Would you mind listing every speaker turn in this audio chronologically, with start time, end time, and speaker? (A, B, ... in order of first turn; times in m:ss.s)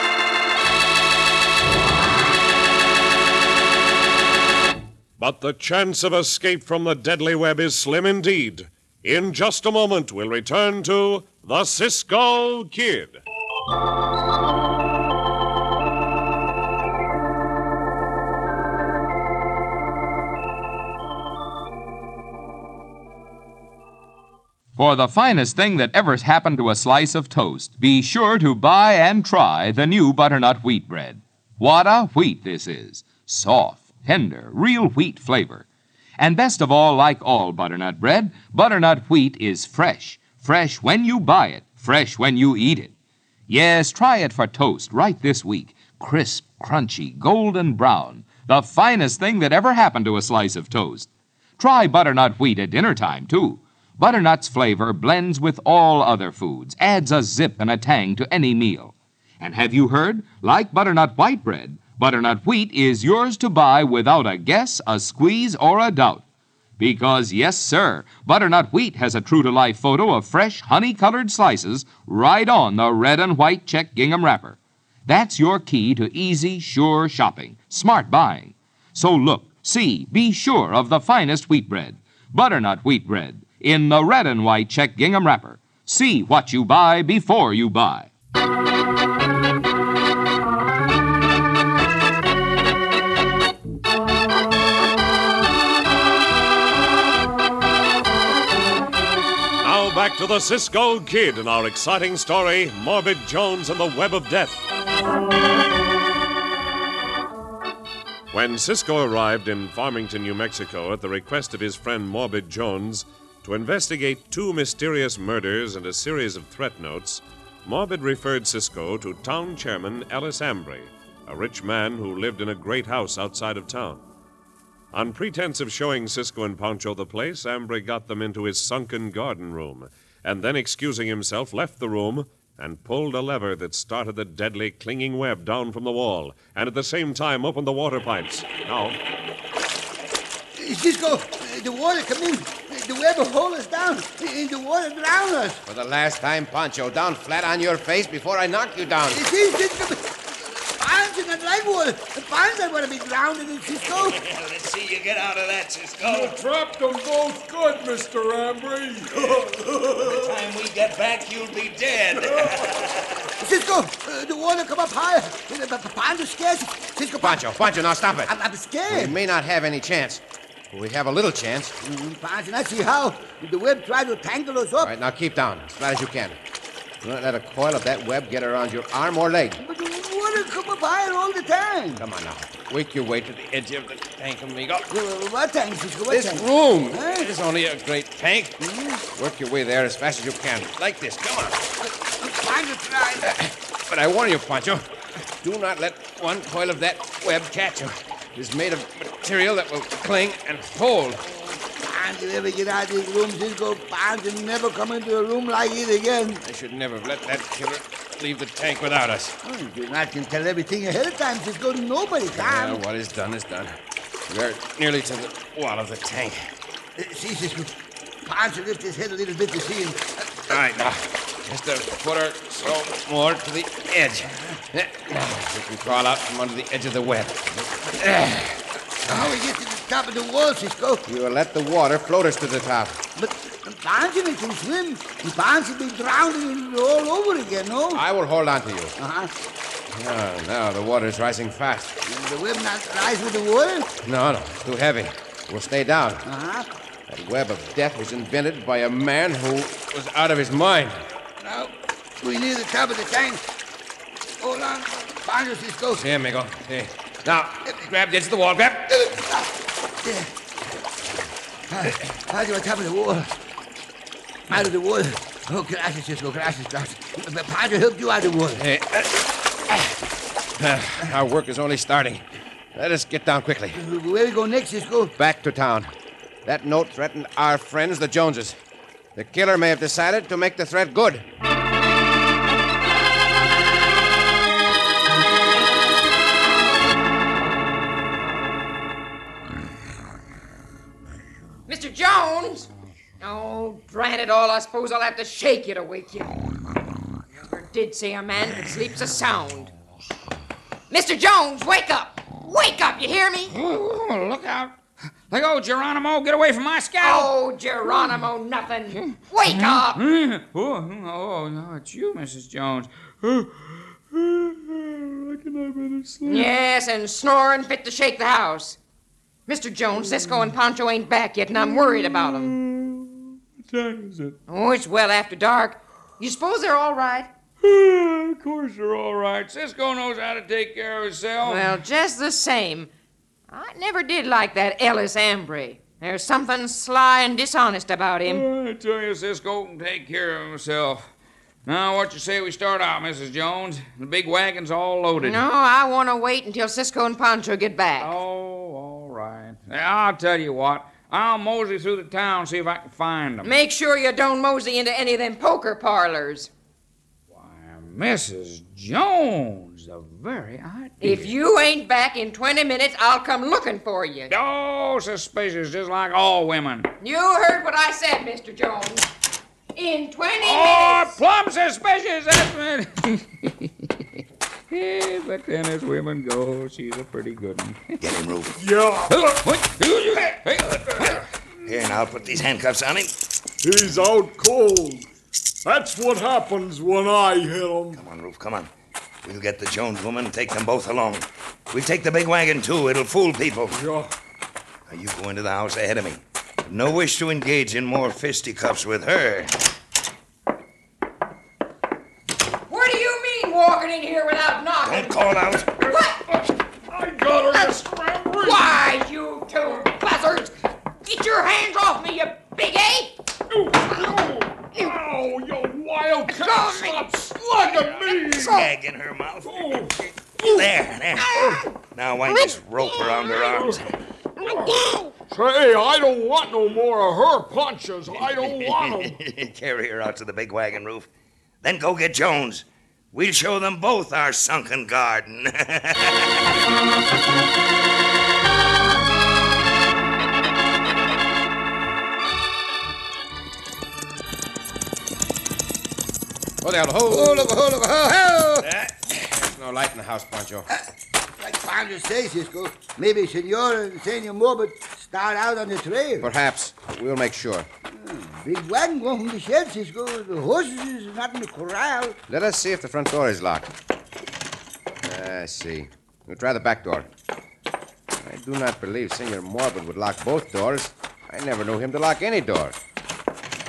0:05.2-0:13.2 A
0:24.8-0:35.7 B
0:36.2-0:42.9 B
0:43.5-1:06.2 B
1:06.8-1:28.1 B
1:39.6-1:44.7 A
1:48.3-2:04.0 A
2:04.9-2:19.0 A
2:20.6-2:25.6 C
2:25.7-2:29.2 D
2:29.1-2:34.2 C
2:33.8-2:36.4 E
2:36.0-2:40.3 F
2:40.0-2:43.3 E
2:42.2-2:42.7 F
2:43.4-2:47.6 C
2:47.2-2:48.3 D
2:48.2-2:49.2 C
2:48.9-2:51.8 D
2:51.8-2:54.9 C
2:54.8-2:56.4 D
2:57.0-2:59.6 D
2:59.6-3:02.0 C
3:02.0-3:04.9 D
3:04.9-3:07.2 C
3:06.1-3:11.6 D
3:08.6-3:09.0 C
3:11.8-3:13.4 C
3:13.2-3:14.8 D
3:15.4-3:21.3 D
3:21.4-3:26.4 C
3:26.4-3:29.4 D
3:29.4-3:32.8 C
3:32.3-3:33.8 D
3:34.3-3:36.4 D
3:37.0-3:40.4 C
3:40.5-3:48.6 D
3:49.0-3:51.0 C
3:51.1-3:53.0 D
3:53.2-3:58.0 C
3:57.9-3:59.0 D
3:59.0-3:59.3 C
3:59.9-4:02.0 D
4:02.0-4:03.9 C
4:04.0-4:06.3 D
4:06.2-4:06.7 C
4:07.1-4:11.0 D
4:11.4-4:13.4 C
4:14.4-4:16.0 C
4:15.9-4:19.1 D
4:18.9-4:20.3 C
4:21.7-4:23.3 C
4:24.5-4:28.6 C
4:28.6-4:30.0 D
4:30.6-4:33.8 D
4:33.8-4:35.1 C
4:35.2-4:35.9 D
4:36.4-4:38.6 D
4:39.1-4:41.2 D
4:51.7-4:52.7 G
4:53.2-4:56.4 G
4:57.4-4:59.7 G
5:00.9-5:03.6 G
5:03.5-5:04.8 H
5:05.3-5:07.3 H
5:07.0-5:10.0 G
5:07.8-5:08.2 H
5:08.9-5:16.5 H
5:16.3-5:18.8 G
5:19.5-5:22.6 G
5:20.0-5:20.5 H
5:21.6-5:24.4 H
5:24.5-5:27.3 G
5:27.6-5:31.8 H
5:31.4-5:32.9 G
5:33.5-5:38.5 G
5:38.3-5:41.0 H
5:41.6-5:45.4 H
5:45.2-5:48.2 G
5:48.0-5:53.5 H
5:53.4-5:56.5 G
5:57.3-6:01.3 H
6:01.0-6:04.3 G
6:04.3-6:06.9 H
6:07.0-6:09.1 G
6:09.8-6:11.1 G
6:10.4-6:18.0 H
6:18.0-6:18.6 E
6:18.6-6:19.5 F
6:19.1-6:21.3 H
6:21.6-6:23.1 E
6:23.6-6:25.1 F
6:25.6-6:28.0 F
6:27.9-6:28.7 E
6:29.2-6:33.8 E
6:33.7-6:34.1 F
6:34.9-6:39.6 E
6:42.7-6:46.2 G
6:44.8-6:45.8 E
6:46.9-6:48.8 F
6:48.4-6:53.2 G
6:53.5-6:58.7 F
6:56.3-6:57.1 G
6:58.2-7:03.9 E
6:59.4-7:00.7 F
7:01.3-7:01.6 F
7:03.2-7:03.8 F
7:04.4-7:09.2 F
7:08.1-7:11.1 E
7:11.6-7:16.4 E
7:26.6-7:27.6 D
7:27.1-7:28.7 C
7:28.6-7:30.7 D
7:31.4-7:36.3 C
7:36.2-7:37.7 D
7:37.9-7:42.2 C
7:42.3-7:43.7 D
7:45.0-7:47.1 D
7:48.1-7:52.8 D